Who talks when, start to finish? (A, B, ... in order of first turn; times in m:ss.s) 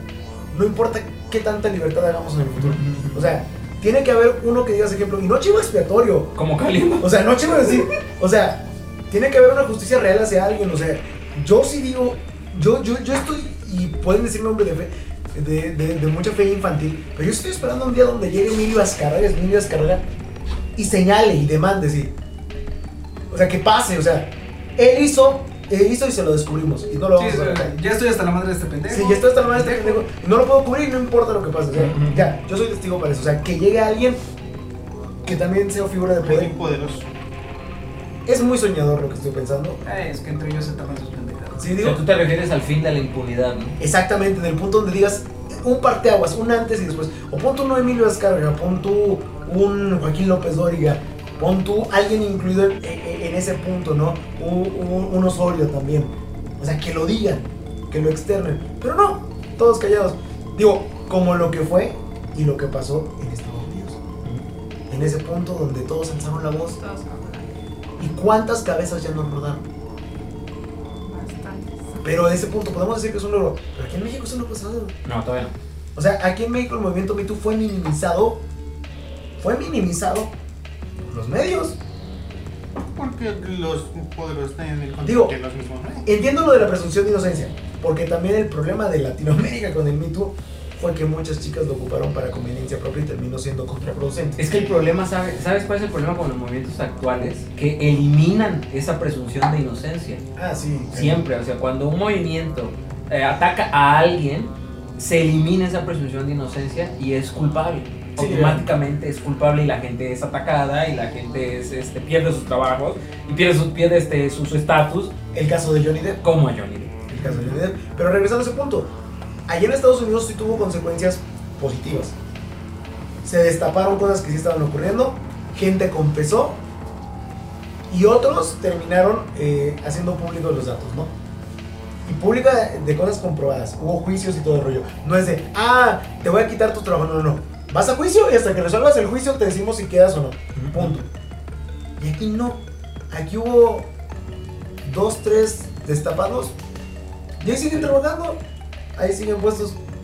0:00.5-0:06.3 A
0:02.6-0:03.3 B
0:06.4-0:07.8 B
0:07.0-0:20.0 A
0:20.8-0:22.1 A
0:23.3-0:27.7 A
0:27.2-0:30.0 C
0:28.9-0:34.2 A
0:31.7-0:32.3 B
0:35.2-0:36.5 A
0:36.2-0:37.1 D
0:38.2-0:39.8 A
0:39.8-0:41.6 C
0:41.5-0:42.0 A
0:41.8-0:43.8 B
0:43.8-1:04.0 A
1:04.9-1:06.8 A
1:06.7-1:07.5 E
1:08.0-1:09.6 A
1:11.0-1:12.2 E
1:12.0-1:14.9 A
1:15.0-1:15.5 B
1:15.9-1:18.4 A
1:19.4-1:20.3 A
1:21.0-1:21.8 A
1:22.9-1:26.0 D
1:25.0-1:25.3 A
1:26.0-1:34.4 A
1:34.4-1:40.2 B
1:40.4-1:41.2 A
1:40.9-1:55.1 B
1:48.2-1:48.6 A
1:55.3-1:56.2 A
1:56.2-1:57.4 B
1:57.1-1:58.9 A
1:59.5-2:02.1 A
2:03.2-2:06.6 A
2:07.9-2:11.1 A
2:12.0-2:21.1 A
2:20.6-2:21.0 B
2:22.0-2:23.9 A
2:24.8-2:26.5 A
2:27.4-2:28.4 A
2:29.0-2:29.8 A